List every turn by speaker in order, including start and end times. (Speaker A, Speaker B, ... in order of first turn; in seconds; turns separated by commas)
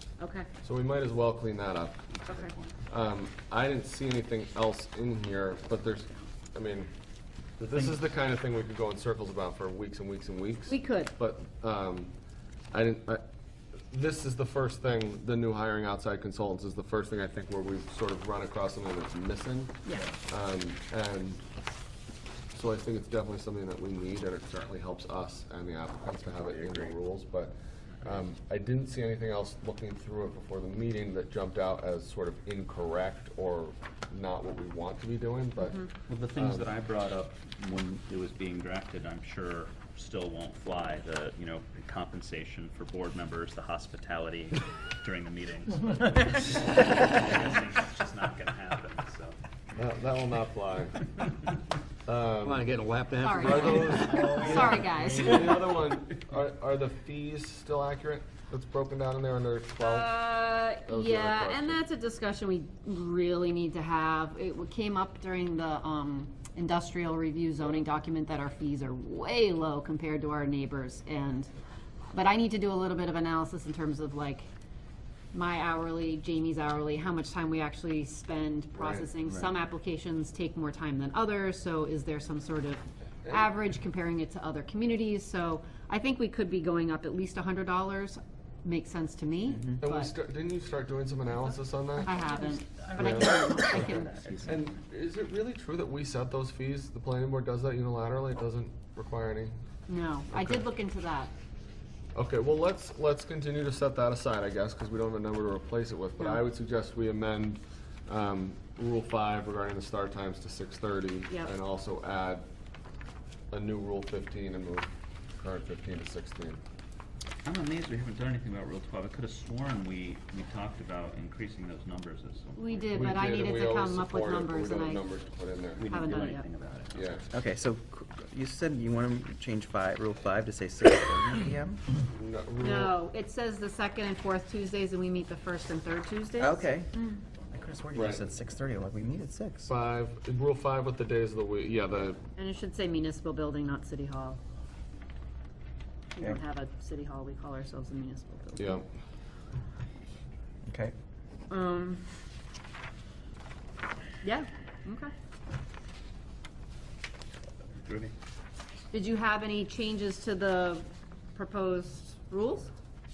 Speaker A: 0.2-0.5, Speaker B: 0.6-2.2, Speaker A: 2.3-2.5, Speaker C: 2.3-2.7, Speaker B: 2.9-6.9, Speaker B: 7.6-12.1, Speaker A: 10.7-11.1, Speaker B: 12.7-13.2, Speaker B: 13.9-21.4, Speaker B: 22.5-36.7, Speaker A: 35.6-35.9, Speaker C: 36.1-49.4, Speaker B: 49.8-51.1, Speaker B: 52.0-52.6, Speaker D: 52.5-55.4, Speaker A: 53.2-55.6, Speaker B: 53.4-61.8, Speaker A: 59.8-71.5, Speaker A: 72.1-74.5, Speaker A: 75.3-90.1, Speaker B: 78.7-79.1, Speaker B: 89.8-92.1, Speaker A: 92.0-94.2, Speaker C: 92.1-94.8, Speaker B: 93.0-99.5, Speaker A: 99.9-101.3, Speaker B: 100.3-100.7, Speaker B: 102.1-112.5, Speaker B: 113.5-116.6, Speaker C: 117.4-123.1, Speaker A: 122.5-125.0, Speaker B: 122.9-125.9, Speaker C: 125.8-127.2, Speaker A: 125.9-126.5, Speaker B: 126.9-127.2, Speaker E: 127.3-131.8, Speaker B: 132.1-133.0, Speaker A: 132.6-137.2, Speaker E: 136.4-136.9, Speaker E: 137.5-139.7, Speaker B: 137.9-138.2, Speaker B: 139.7-142.2, Speaker A: 142.4-144.4, Speaker A: 146.2-148.7, Speaker B: 148.6-148.8, Speaker E: 150.7-150.9, Speaker A: 151.5-152.0, Speaker A: 154.2-155.1, Speaker C: 157.8-158.1, Speaker A: 158.9-162.7